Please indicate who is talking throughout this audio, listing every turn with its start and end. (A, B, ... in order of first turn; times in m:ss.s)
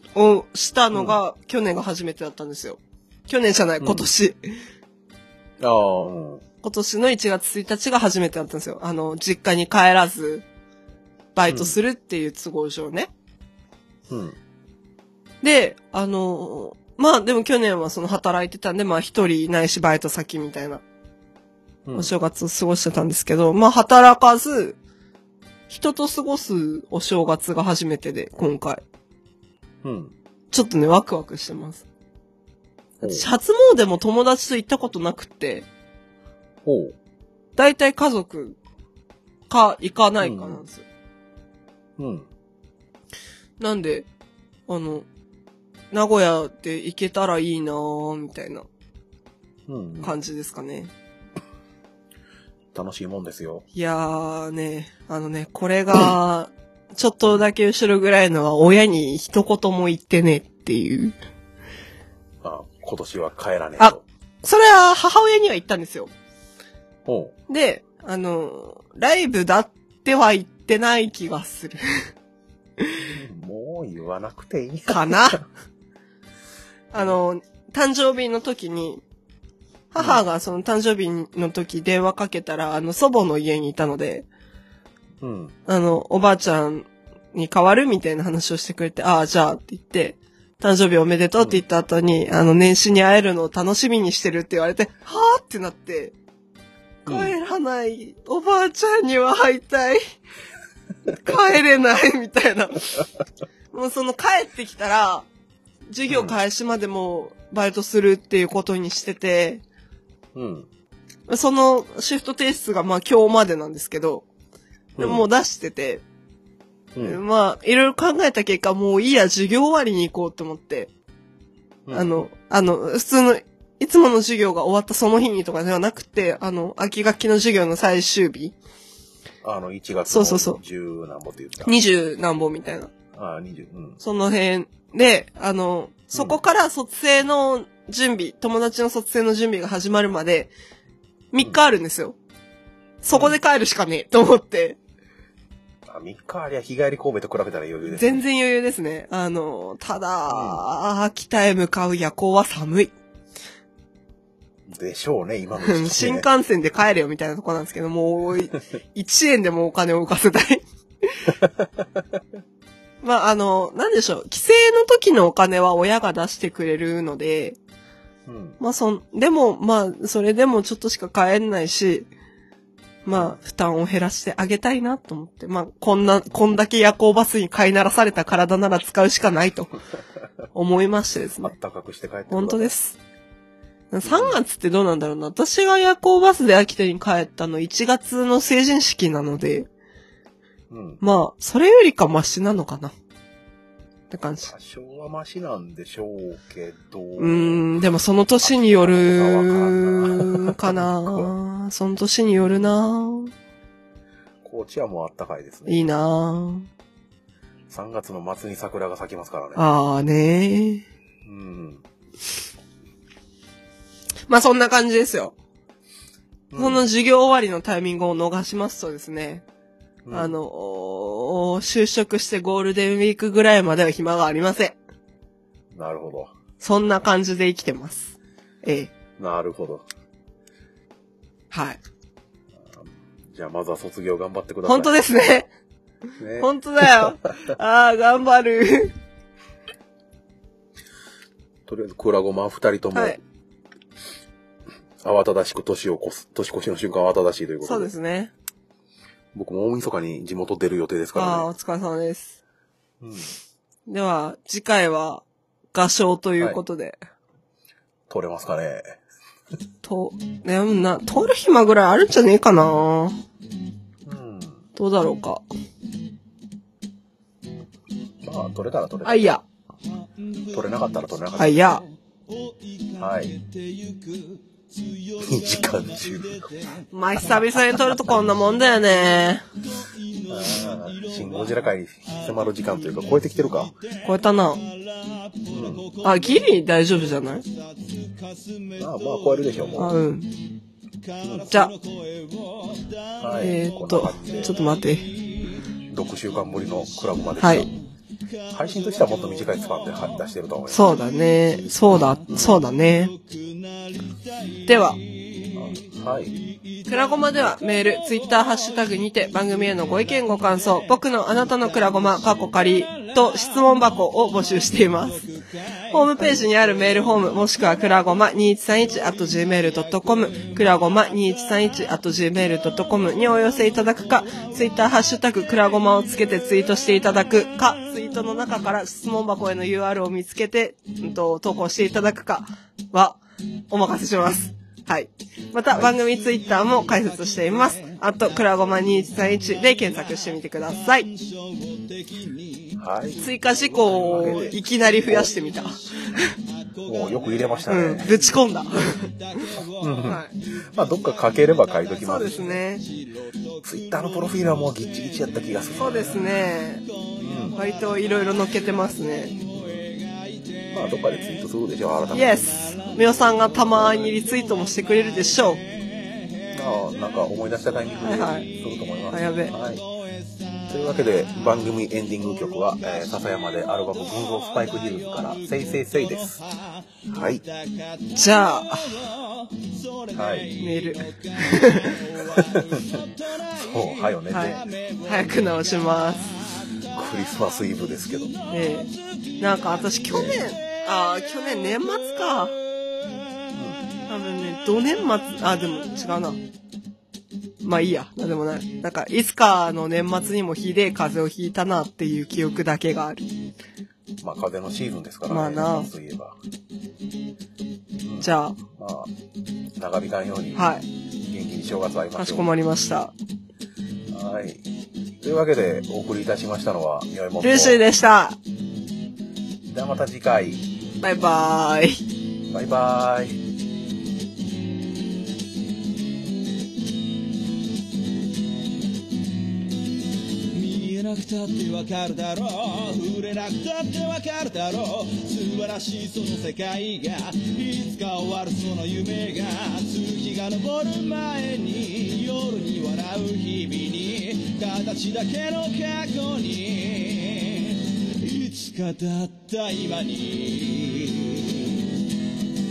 0:00.2-0:04.4 A
0:00.9-0:01.2 B
0:05.6-0:06.4 B
0:06.6-0:10.4 A
0:11.4-0:13.1 A
0:11.5-0:11.8 B
0:14.1-0:14.4 B
0:15.4-0:20.8 A
0:21.9-0:22.1 B
0:21.9-0:24.8 A
0:25.7-0:28.8 A
0:29.8-0:30.1 B
0:30.5-0:31.8 A
0:33.0-0:33.3 B
0:33.0-0:35.7 A
0:36.6-0:37.0 B
0:37.6-0:38.6 A
0:39.5-0:40.8 A
0:40.2-0:40.6 B
0:42.0-0:42.3 B
0:43.6-0:44.1 A
0:44.7-0:45.1 A
0:45.9-0:48.7 A
0:49.7-0:50.1 B
0:50.0-0:50.9 A
0:52.7-0:53.6 B
0:53.7-1:01.2 A
1:02.4-1:04.0 B
1:03.8-1:06.1 A
1:07.1-1:07.4 B
1:07.5-1:11.8 A
1:13.0-1:15.4 B
1:14.9-1:15.4 A
1:16.9-1:19.0 A
1:19.9-1:24.3 A
1:20.0-1:20.2 B
1:25.2-1:25.6 B
1:25.7-1:36.2 A
1:37.0-1:40.0 A
1:37.1-1:37.4 B
1:41.1-1:43.0 A
1:43.7-1:45.3 A
1:45.9-1:49.6 A
1:46.1-1:46.4 B
1:50.4-1:50.7 B
1:51.3-1:54.3 A
1:55.0-1:55.3 B
1:55.0-1:56.0 A
1:56.9-1:57.2 B
1:57.0-2:00.9 A
2:01.9-2:02.2 B
2:01.9-2:08.6 A
2:09.4-2:11.7 B
2:10.1-2:10.6 A
2:11.6-2:12.9 A
2:13.1-2:14.0 B
2:14.0-2:20.5 A
2:21.3-2:22.2 A
2:23.0-2:24.8 A
2:25.9-2:28.2 B
2:27.9-2:32.9 A
2:30.3-2:30.6 B
2:34.7-2:36.3 B
2:35.6-2:41.3 A
2:43.0-2:47.6 A
2:48.3-2:48.6 B
2:48.6-2:52.1 A
2:53.1-2:59.8 A
3:00.5-3:01.5 A
3:01.4-3:02.7 B
3:02.3-3:03.0 A
3:03.9-3:09.7 A
3:04.0-3:04.4 B
3:10.7-3:11.0 B
3:11.0-3:12.9 A
3:14.1-3:14.5 A
3:14.5-3:17.7 B
3:17.2-3:23.3 A
3:18.4-3:21.3 B
3:22.4-3:22.7 B
3:24.4-3:25.8 B
3:25.7-3:26.7 A
3:27.7-3:29.6 B
3:29.6-3:30.8 A
3:31.2-3:31.8 B
3:34.3-3:35.4 A
3:36.5-3:36.8 B
3:36.6-3:39.4 A
3:40.1-3:40.4 B
3:40.1-3:44.8 A
3:45.7-3:46.3 B
3:46.6-3:48.9 A
3:49.2-3:49.8 B
3:51.5-3:51.8 A
3:52.7-3:55.0 B
3:54.7-3:55.5 A
3:56.2-3:57.1 B
3:56.4-3:58.9 A
4:01.7-4:03.2 B
4:02.9-4:03.2 A
4:05.0-4:07.9 B
4:07.6-4:08.3 A
4:09.3-4:11.5 B
4:11.2-4:12.4 A
4:13.0-4:13.3 B
4:13.9-4:17.0 A
4:18.1-4:19.0 B
4:19.8-4:23.2 A
4:24.0-4:24.6 B
4:24.8-4:25.4 A
4:28.2-4:29.3 B
4:29.0-4:29.4 A
4:29.9-4:38.1 C
4:30.5-4:31.7 B
4:31.4-4:31.8 A
4:33.0-4:33.4 B
4:35.2-4:36.5 B
4:36.9-4:39.4 A
4:37.8-4:38.2 B
4:39.7-4:49.8 C
4:40.3-4:43.7 B
4:44.0-4:44.6 A
4:45.5-4:45.9 B
4:46.0-4:47.4 A
4:48.8-4:49.9 B
4:49.8-4:50.3 A
4:51.0-4:53.5 C
4:51.2-4:51.5 B
4:53.2-4:54.6 B
4:53.4-4:55.1 A
4:54.4-4:55.6 C
4:55.9-4:57.7 B
4:56.5-5:17.2 C
4:57.4-4:57.7 A
4:58.5-5:01.0 B
5:00.7-5:03.1 A
5:04.7-5:05.0 A
5:05.6-5:06.4 B
5:06.9-5:15.2 A
5:15.9-5:41.1 A
5:16.2-5:16.5 B
5:19.0-5:22.0 C
5:22.6-5:26.8 C
5:35.8-6:31.6 C
5:42.8-5:43.3 B
5:43.2-5:46.4 A
5:43.8-5:45.3 B
5:46.9-5:48.1 B
5:47.7-5:49.4 A
5:49.8-5:52.5 B
5:50.0-5:50.3 A
5:52.0-5:52.8 A
5:53.6-5:56.3 B
5:55.8-5:56.8 A
5:57.2-5:57.6 B
5:57.6-5:59.3 A
5:59.5-5:59.9 B
6:00.7-6:02.5 B
6:02.1-6:05.6 A
6:06.5-6:09.8 B
6:08.0-6:08.5 A
6:09.1-6:09.5 A
6:10.7-6:16.4 B
6:17.1-6:17.4 B
6:18.2-6:19.1 A
6:20.1-6:20.6 B
6:20.6-6:22.0 A
6:22.2-6:23.0 B
6:23.6-6:24.6 B
6:24.3-6:26.3 A
6:26.9-6:28.4 B
6:28.5-6:32.6 A
6:33.0-6:33.4 C
6:33.6-6:33.8 B
6:34.1-6:36.4 A
6:37.6-6:43.3 A
6:44.2-6:46.4 B
6:45.3-6:45.9 A
6:48.0-6:49.1 B
6:48.2-6:48.6 A
6:49.8-6:50.6 B
6:50.6-6:50.8 A
6:51.2-6:52.5 B
6:52.2-6:53.1 A
6:54.1-6:54.6 B
6:55.2-6:57.8 B
6:57.4-6:58.4 A
6:59.7-7:00.6 B
7:01.0-7:02.0 A
7:02.5-7:03.4 B
7:10.5-7:31.9 C